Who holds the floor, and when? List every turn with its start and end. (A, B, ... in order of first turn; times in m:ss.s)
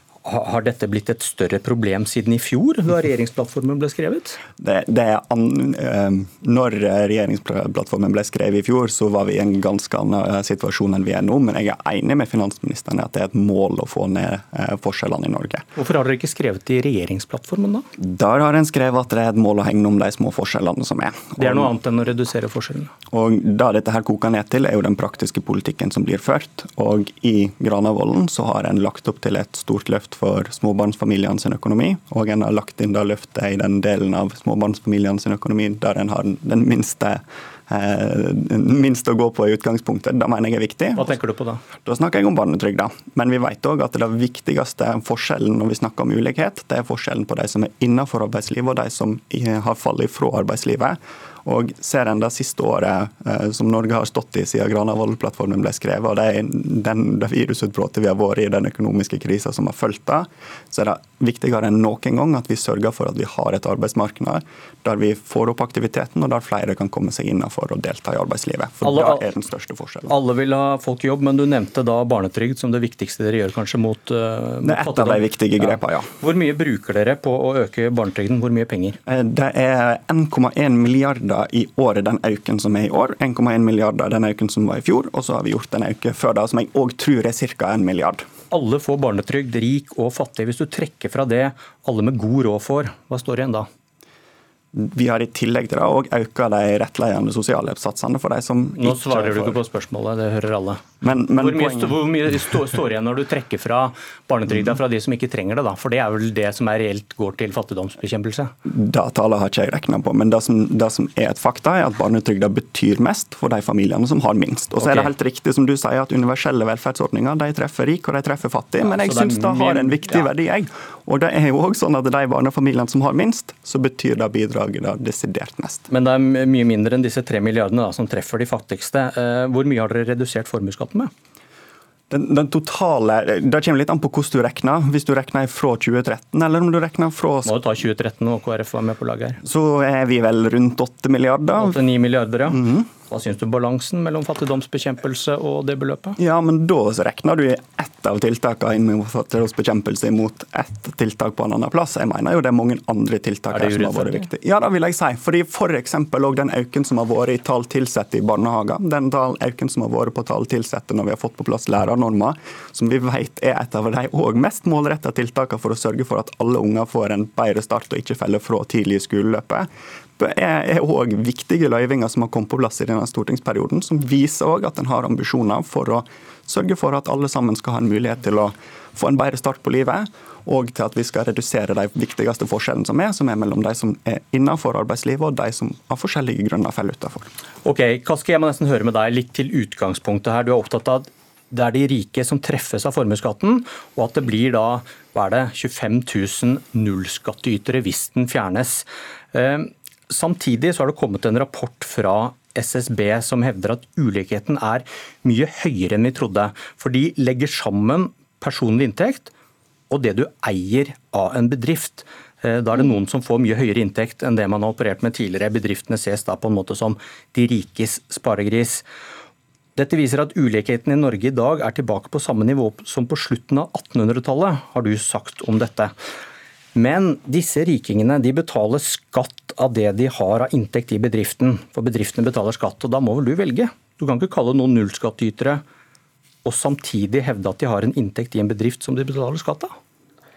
0:00.2-0:04.4 A
0:04.6-0:15.6 B
0:15.8-0:17.8 A
0:18.0-0:21.7 B
0:21.4-0:22.9 A
0:23.1-0:41.2 B
0:41.0-0:41.6 A
0:41.8-1:10.1 B
1:08.8-1:09.3 A
1:10.1-1:19.0 A
1:14.6-1:16.1 B
1:19.1-1:28.2 B
1:28.5-1:33.7 A
1:34.7-1:39.6 B
1:38.8-1:40.8 A
1:41.0-1:42.0 B
1:41.4-1:48.5 A
1:48.6-2:05.9 B
1:54.8-1:55.1 A
1:58.8-2:00.3 A
2:05.9-2:11.1 A
2:12.1-2:17.6 B
2:17.4-2:19.4 A
2:19.4-2:21.8 B
2:21.6-2:26.2 A
2:22.5-2:22.9 B
2:26.2-3:07.3 B
2:33.5-2:34.3 A
3:07.6-3:29.3 A
3:29.9-3:38.8 A
3:39.8-3:45.9 A
3:46.7-3:55.6 A
3:56.4-3:59.7 A